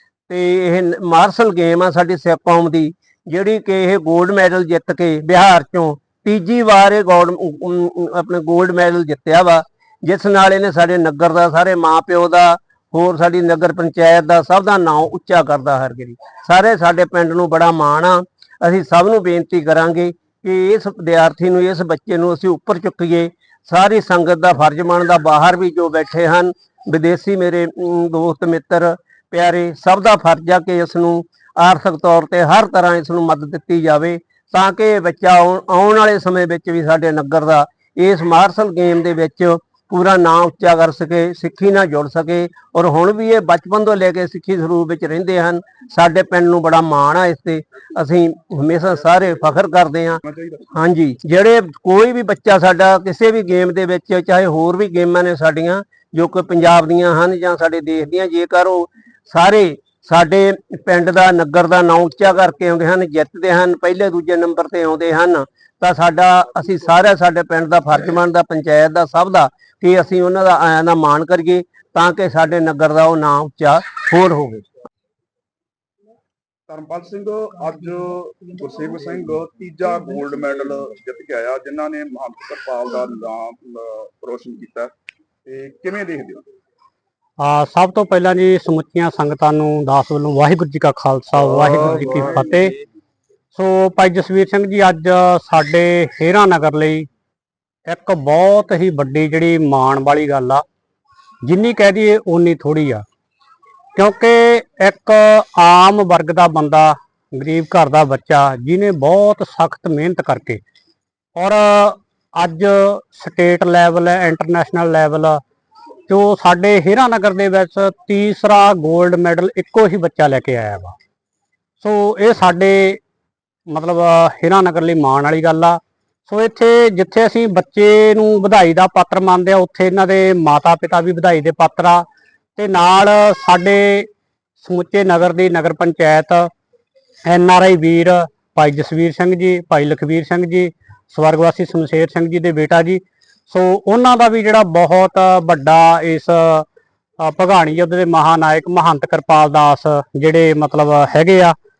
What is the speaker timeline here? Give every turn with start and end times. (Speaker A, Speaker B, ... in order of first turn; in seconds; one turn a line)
Speaker A: 0.3-50.2
Speaker B: 50.2-50.6
Speaker A: 50.7-74.7
Speaker B: 76.7-84.9
Speaker B: 85.4-86.4
Speaker C: 87.4-92.7
Speaker B: 92.0-92.4
Speaker C: 93.5-97.1
Speaker C: 97.8-100.6
Speaker C: 101.4-103.0
Speaker C: 103.9-110.6
Speaker C: 111.4-115.4
Speaker C: 116.1-120.9
Speaker C: 121.8-123.0
Speaker C: 123.7-134.1
Speaker C: 134.6-136.5
Speaker C: 137.3-146.7
Speaker C: 147.2-151.5